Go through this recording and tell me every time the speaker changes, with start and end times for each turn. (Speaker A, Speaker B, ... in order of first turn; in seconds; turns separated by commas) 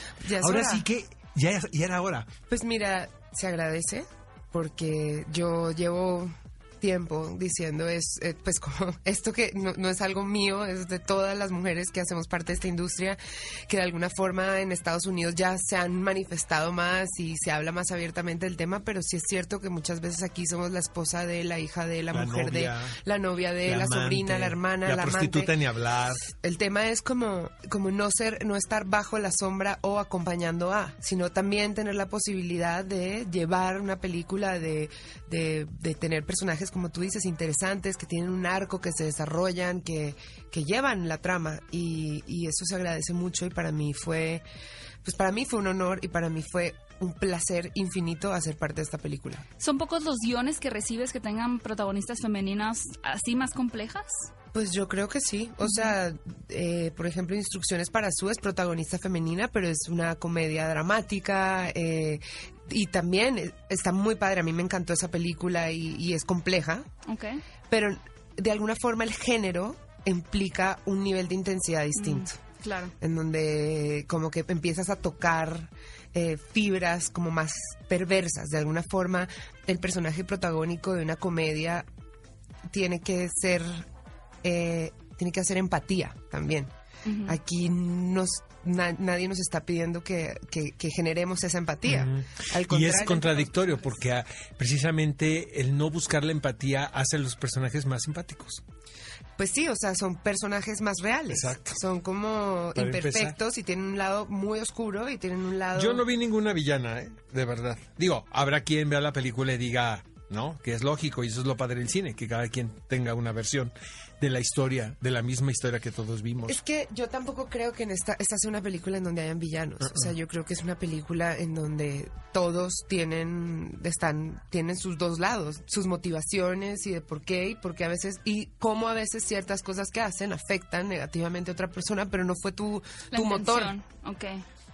Speaker A: 0.2-0.8, Speaker B: 0.4-2.3, Speaker A: 2.5-25.5, Speaker B: 22.1-23.0, Speaker B: 23.6-26.2, Speaker A: 26.2-44.4, Speaker A: 45.0-49.4, Speaker C: 49.6-54.2, Speaker A: 54.5-66.9, Speaker C: 55.6-55.9, Speaker C: 67.1-67.4, Speaker A: 67.7-72.4, Speaker C: 72.0-72.9, Speaker A: 73.0-81.8, Speaker A: 82.7-83.8, Speaker A: 84.4-86.7, Speaker C: 87.0-87.4, Speaker A: 87.2-94.0, Speaker B: 91.8-98.6, Speaker A: 99.4-106.0, Speaker B: 101.3-101.8, Speaker B: 102.8-103.4, Speaker B: 105.7-116.6, Speaker A: 116.5-133.7, Speaker C: 133.1-134.4